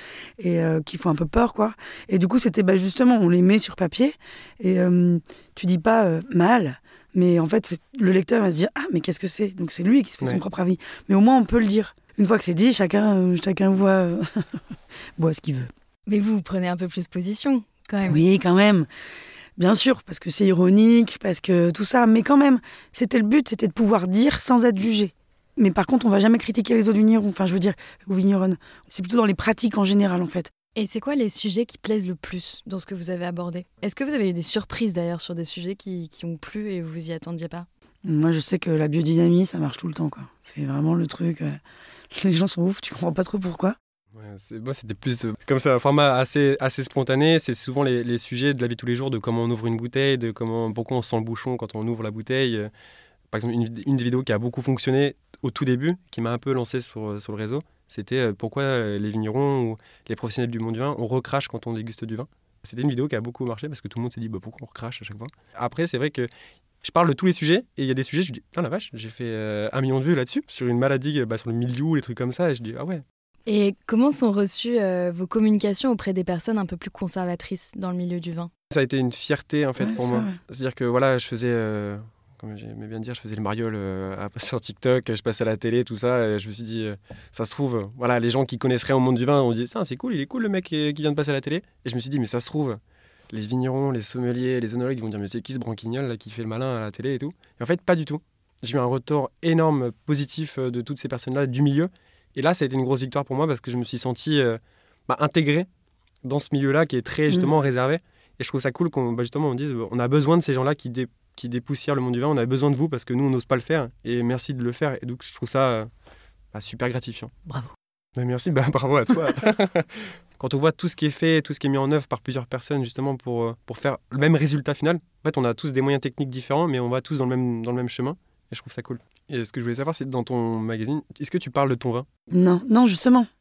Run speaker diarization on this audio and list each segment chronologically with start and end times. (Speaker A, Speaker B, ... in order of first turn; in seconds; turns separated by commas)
Speaker A: 0.4-14.6, Speaker A: 15.2-15.7, Speaker B: 16.1-18.2, Speaker A: 18.1-18.9, Speaker A: 19.6-30.5, Speaker B: 30.7-37.7, Speaker A: 38.0-41.6, Speaker A: 42.1-43.8, Speaker C: 44.1-52.7, Speaker C: 53.3-66.3, Speaker C: 66.8-73.0, Speaker B: 73.5-78.5, Speaker C: 78.7-92.8, Speaker A: 79.8-80.4, Speaker C: 93.3-105.7, Speaker C: 106.2-115.9, Speaker C: 116.5-117.3, Speaker C: 118.2-132.1, Speaker A: 132.3-133.3